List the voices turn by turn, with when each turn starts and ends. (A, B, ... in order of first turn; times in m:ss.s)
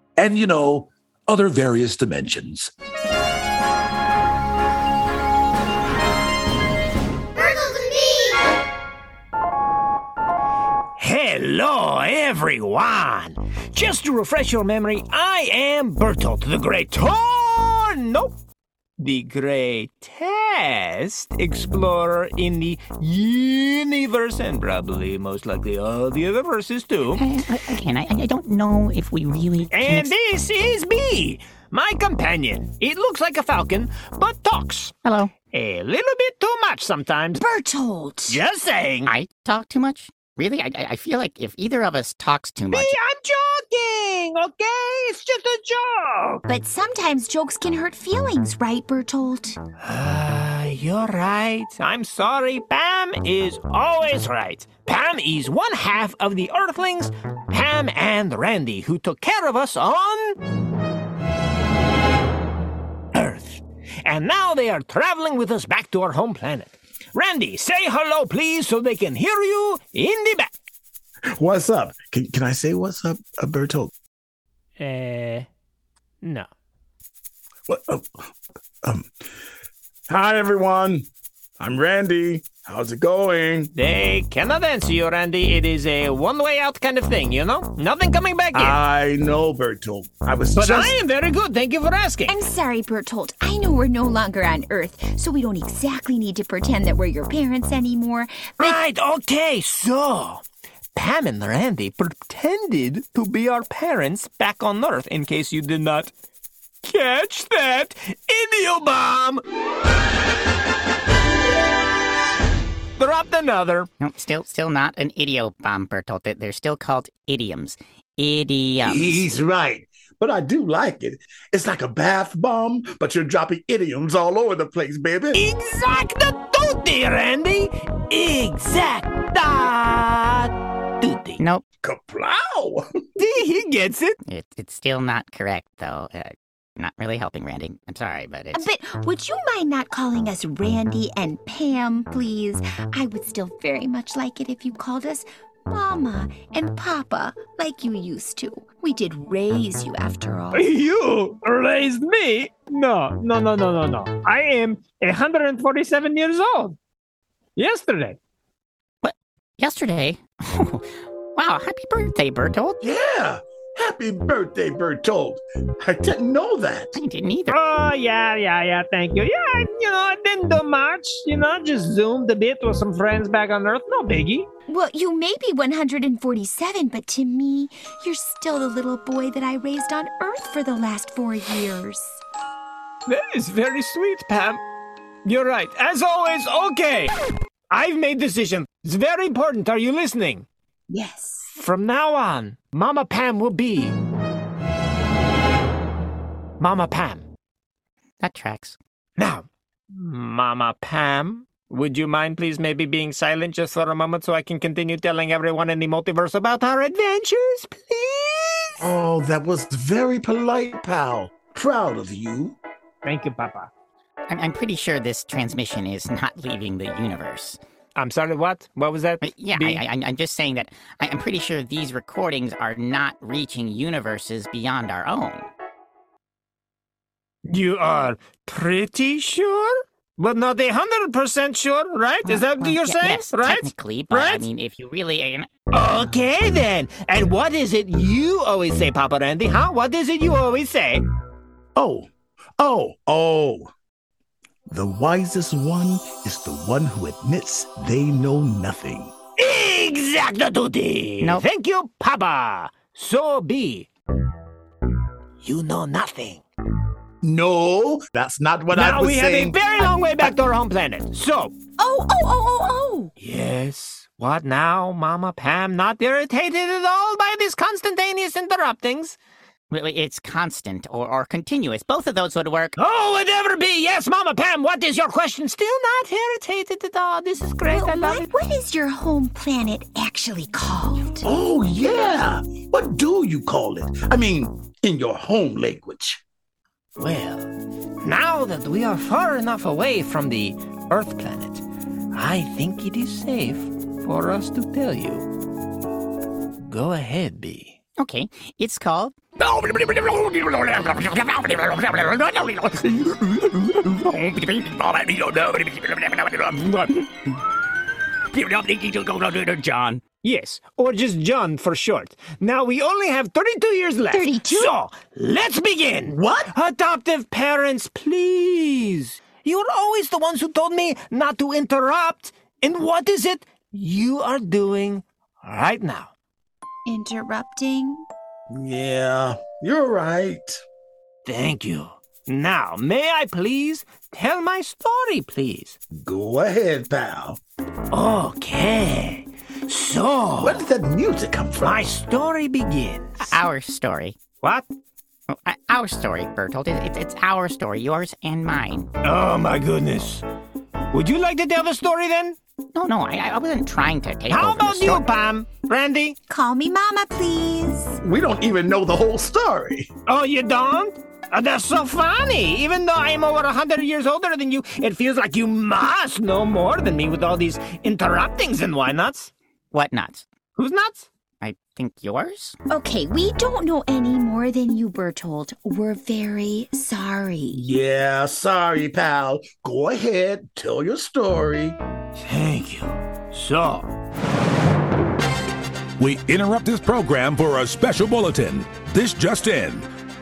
0:00.2-0:02.7 A
0:11.0-0:18.3 B
0:19.0-0:27.2 B
0:27.1-0:30.1 C
0:29.7-0:35.0 B
0:35.0-0:35.4 C
0:35.5-0:37.4 B
0:37.4-0:38.4 D
0:38.3-0:39.1 B
0:39.0-0:43.0 C
0:42.7-0:46.4 B
0:46.5-0:49.6 D
0:49.8-1:00.4 B
1:03.1-1:10.5 B
1:11.4-1:13.9 E
1:14.8-1:15.5 B
1:16.2-1:16.5 B
1:17.7-1:18.1 E
1:18.8-1:19.1 E
1:20.1-1:21.1 E
1:21.6-1:23.7 E
1:23.8-1:28.8 B
1:28.5-1:31.0 E
1:30.5-1:32.4 B
1:32.3-1:38.8 D
1:38.6-1:40.4 B
1:41.0-1:46.1 B
1:46.8-1:49.4 B
1:53.0-1:53.9 B
1:54.0-1:59.3 C
1:58.8-2:05.4 E
2:05.3-2:11.4 B
2:11.4-2:11.6 C
2:11.8-2:12.8 E
2:13.2-2:14.2 B
2:14.2-2:18.7 C
2:18.5-2:30.7 D
2:30.5-2:36.8 B
2:37.6-2:38.2 B
2:39.0-2:42.8 C
2:42.8-2:47.0 E
2:47.0-2:47.6 C
2:47.5-2:54.5 B
2:54.7-3:02.2 D
3:03.1-3:04.6 B
3:05.2-3:07.1 B
3:07.7-3:10.5 B
3:10.9-3:11.6 D
3:11.6-3:14.0 B
3:16.6-3:17.3 B
3:18.2-3:18.8 C
3:19.2-3:28.9 B
3:28.8-3:32.6 E
3:33.0-3:33.7 B
3:34.3-3:37.6 C
3:38.0-3:39.8 B
3:39.2-3:45.5 C
3:47.5-3:54.5 B
3:52.2-3:55.5 C
3:55.7-4:01.0 B
4:01.8-4:03.7 E
4:04.7-4:09.1 E
4:09.4-4:13.9 B
4:11.2-4:11.5 C
4:15.4-4:16.4 B
4:17.2-4:19.6 E
4:18.7-4:21.5 B
4:21.8-4:23.1 D
4:23.2-4:29.2 B
4:29.7-4:32.8 C
4:32.8-4:38.2 B
4:37.7-4:41.3 D
4:41.2-4:46.2 E
4:47.0-4:55.3 B
4:56.6-4:57.8 B
4:58.0-5:07.3 C
5:08.3-5:10.0 C
5:10.2-5:26.1 B
5:14.1-5:14.7 D
5:16.1-5:16.5 E
5:26.8-5:28.1 D
5:28.5-5:30.6 E
5:31.2-5:35.8 B
5:35.9-5:37.4 E
5:37.9-5:40.6 B
5:40.4-5:42.0 E
5:41.6-5:43.4 B
5:43.2-5:44.2 C
5:44.4-5:44.7 B
5:45.3-5:48.9 C
5:49.0-5:50.2 B
5:50.9-5:52.4 B
5:52.7-5:55.0 C
5:54.3-5:56.2 B
5:56.3-5:58.0 D
5:58.0-5:59.9 E
6:00.1-6:09.3 B
6:09.7-6:10.3 C
6:10.6-6:11.1 B
6:11.4-6:12.6 C
6:12.7-6:17.6 D
6:17.5-6:21.8 E
6:22.2-6:23.9 B
6:26.0-6:29.9 A